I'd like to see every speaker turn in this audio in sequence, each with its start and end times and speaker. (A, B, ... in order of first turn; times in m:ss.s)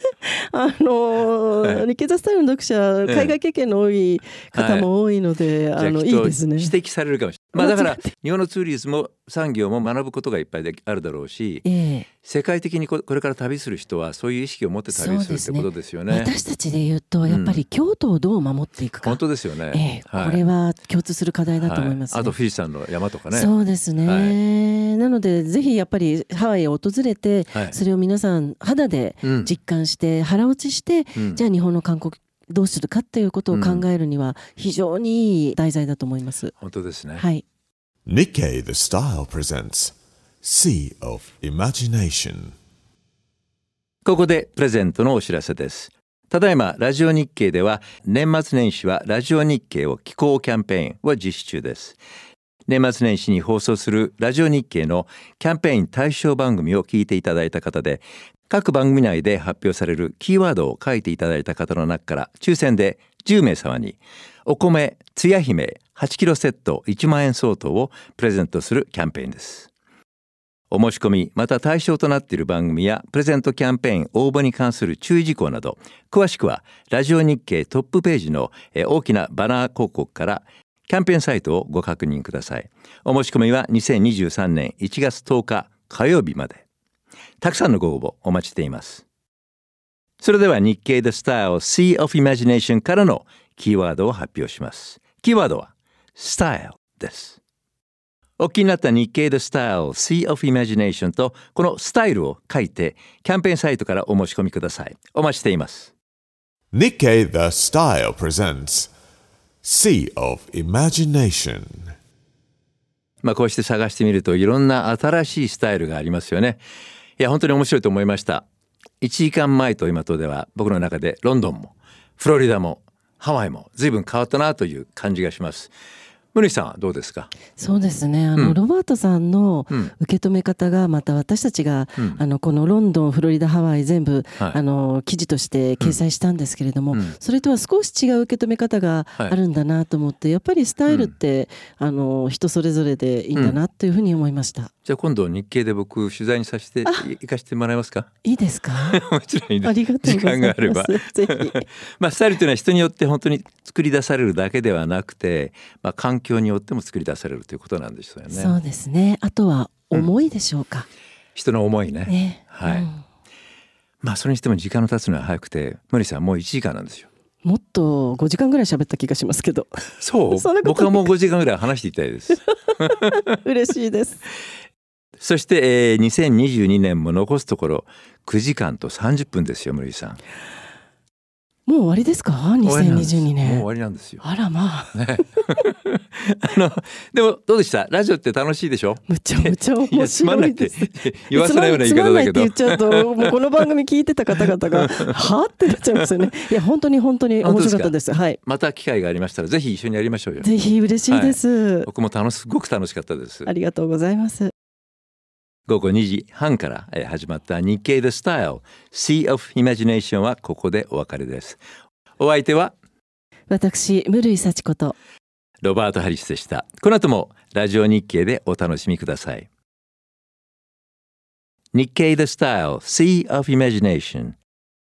0:00.2-0:06.7 A
0:03.1-0:03.3 B
0:04.5-0:04.9 B
0:05.8-0:11.6 B
0:07.6-0:08.1 A
0:11.6-0:12.1 A
0:12.2-0:16.3 B
0:14.9-0:19.2 A
0:17.3-0:17.6 B
0:19.0-0:20.4 B
0:19.7-0:22.3 A
0:21.6-0:23.5 B
0:23.3-0:36.5 A
0:24.0-0:24.4 B
0:29.2-0:29.5 B
0:33.5-0:33.8 B
0:36.6-0:37.2 B
0:37.2-0:37.4 A
0:38.0-0:42.5 C
0:44.0-0:52.0 B
0:52.7-1:09.7 B
1:10.7-1:26.6 B
1:27.4-1:29.0 B
1:30.2-1:37.4 B
1:38.4-1:45.9 B
1:46.7-1:48.9 C
1:49.6-1:51.9 C
1:53.2-1:56.6 B
1:57.2-1:58.4 B
1:59.0-2:05.7 B
2:06.3-2:07.3 B
2:07.6-2:24.7 A
2:20.9-2:21.1 B
2:24.8-2:28.1 B
2:28.2-2:29.0 A
2:28.9-2:38.6 B
2:29.6-2:31.6 A
2:38.3-2:40.9 A
2:41.3-2:42.9 B
2:42.1-2:43.0 A
2:44.0-2:47.1 B
2:47.4-2:51.1 A
2:50.0-2:53.4 B
2:52.5-2:52.9 A
2:53.4-2:54.2 A
2:55.2-3:00.2 B
3:01.7-3:03.6 A
3:02.6-3:04.2 B
3:04.2-3:05.4 A
3:04.9-3:13.3 B
3:09.1-3:18.4 A
3:14.4-3:15.1 B
3:17.4-3:20.5 B
3:20.4-3:21.9 A
3:21.1-3:23.5 B
3:23.4-3:24.5 A
3:25.7-3:31.6 B
3:32.2-3:32.7 B
3:33.5-3:34.9 A
3:35.6-3:39.4 B
3:41.7-3:44.4 B